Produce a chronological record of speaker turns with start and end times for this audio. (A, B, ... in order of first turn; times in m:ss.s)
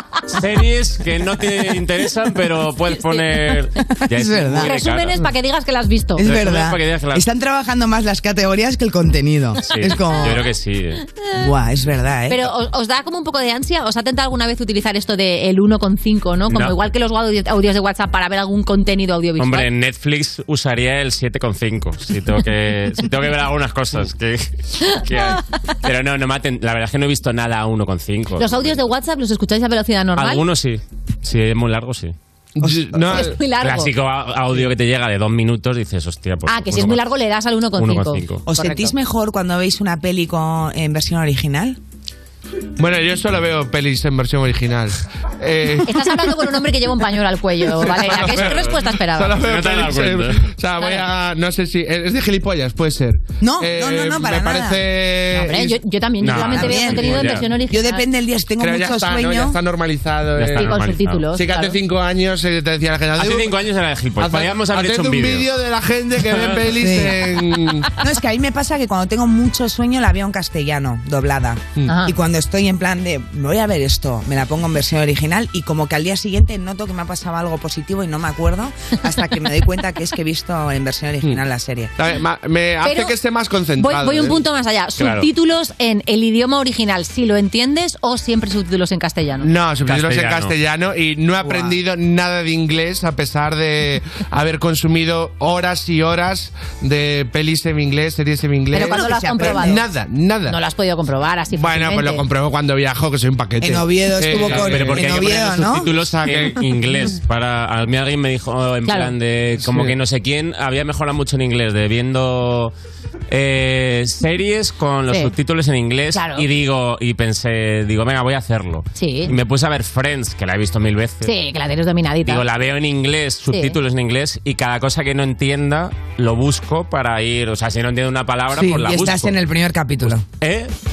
0:00.3-0:05.3 A
0:04.1-0:04.7 B
0:04.6-0:06.3 C
0:06.2-0:10.5 B
0:06.2-0:07.2 A
0:09.6-0:11.0 A
0:11.3-0:12.5 B
0:12.3-0:19.7 C
0:16.5-0:16.8 A
0:19.4-0:28.8 A
0:28.4-0:30.4 C
0:30.2-0:32.1 A
0:32.6-0:33.3 D
0:32.6-0:33.2 B
0:33.1-0:33.9 C
0:33.5-0:37.0 A
0:36.5-0:38.9 C
0:37.8-0:38.4 A
0:38.5-0:41.8 B
0:42.8-0:46.0 D
0:45.8-0:49.4 C
0:47.9-0:50.5 A
0:49.1-0:55.8 D
0:50.8-0:51.0 C
0:53.4-0:54.9 B
0:55.3-0:58.0 C
0:56.2-0:57.5 A
0:56.4-0:59.6 B
0:58.6-1:00.7 D
1:00.3-1:01.3 A
1:00.6-1:01.8 C
1:01.3-1:03.5 D
1:03.1-1:05.4 A
1:04.2-1:07.9 D
1:06.3-1:06.6 A
1:06.7-1:07.2 B
1:08.0-1:21.9 B
1:11.8-1:12.1 C
1:22.0-1:24.4 D
1:22.8-1:23.1 C
1:23.8-1:29.5 C
1:25.0-1:25.3 A
1:29.4-1:40.6 D
1:29.8-1:30.5 A
1:31.4-1:31.8 B
1:38.7-1:39.8 C
1:38.7-1:39.8 B
1:40.5-1:42.2 C
1:41.5-1:46.5 D
1:43.6-1:45.9 B
1:44.3-1:52.7 A
1:48.8-1:49.1 C
1:49.6-1:49.9 D
1:53.3-2:01.3 A
1:56.1-1:56.4 C
1:58.9-1:59.3 C
2:01.2-2:02.4 C
2:02.2-2:09.4 A
2:03.5-2:03.8 C
2:08.5-2:10.2 B
2:10.0-2:10.7 A